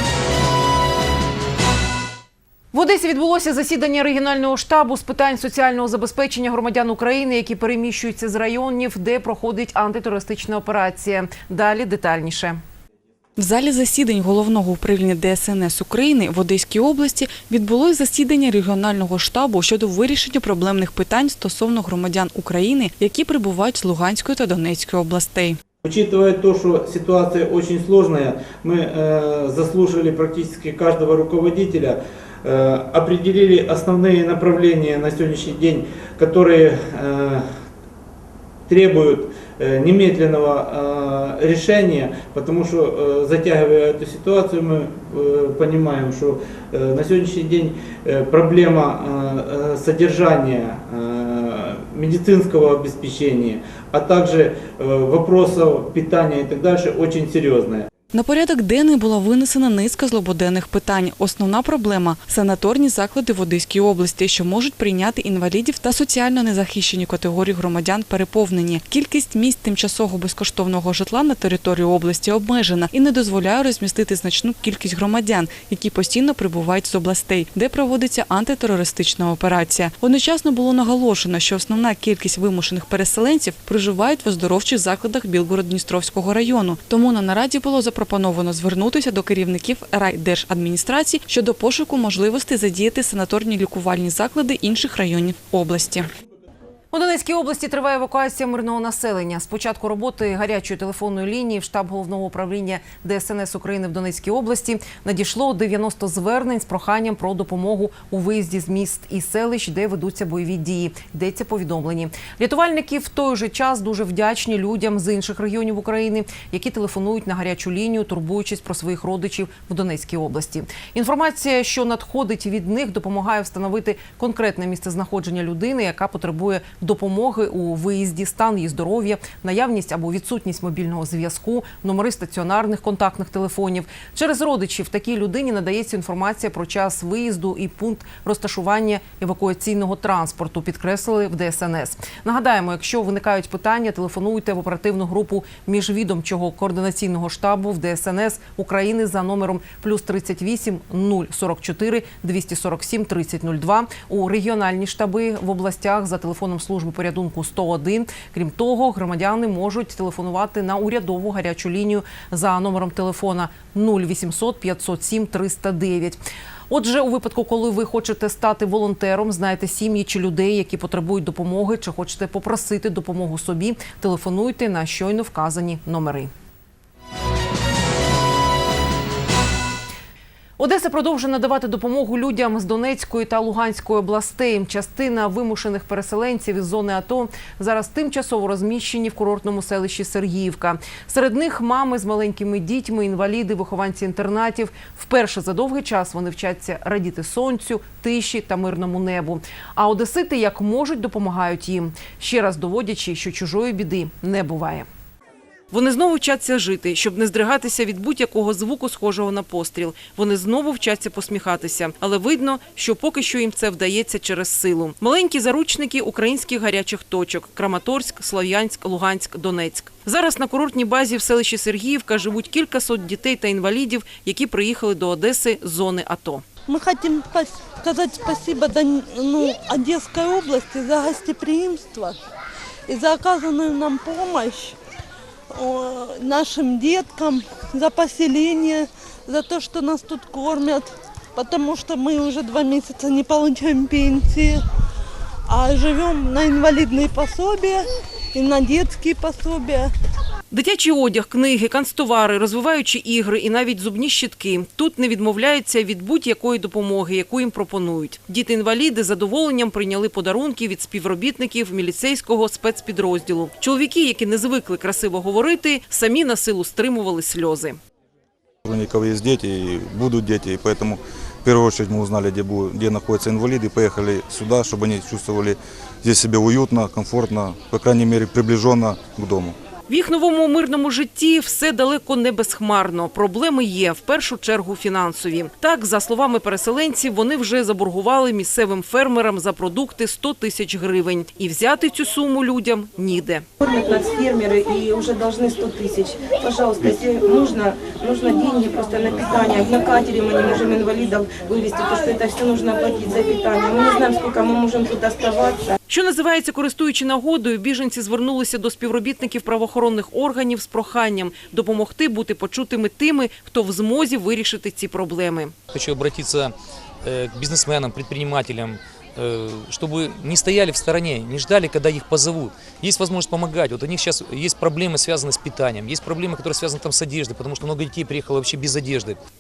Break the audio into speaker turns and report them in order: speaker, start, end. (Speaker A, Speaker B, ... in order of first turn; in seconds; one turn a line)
Speaker A: 2.7-12.6
Speaker B: 13.4-25.6
Speaker C: 25.8-37.4
Speaker C: 38.7-57.9
Speaker B: 58.1-96.1
Speaker A: 96.9-176.3
Speaker A: 180.6-204.9
Speaker A: 205.7-226.4
Speaker D: 226.7-232.2
Speaker D: 232.9-234.7
Speaker D: 235.5-244.6
Speaker D: 245.5-247.8
Speaker D: 248.3-249.9
Speaker A: 250.5-267.8
Speaker E: 268.6-279.6
Speaker A: 279.9-293.4
Speaker F: 293.6-305.6
Speaker A: 305.9-315.5
Speaker G: 315.8-316.4
Speaker G: 317.3-318.8
Speaker G: 319.6-320.9
Speaker G: 321.4-322.3
Speaker G: 322.9-329.2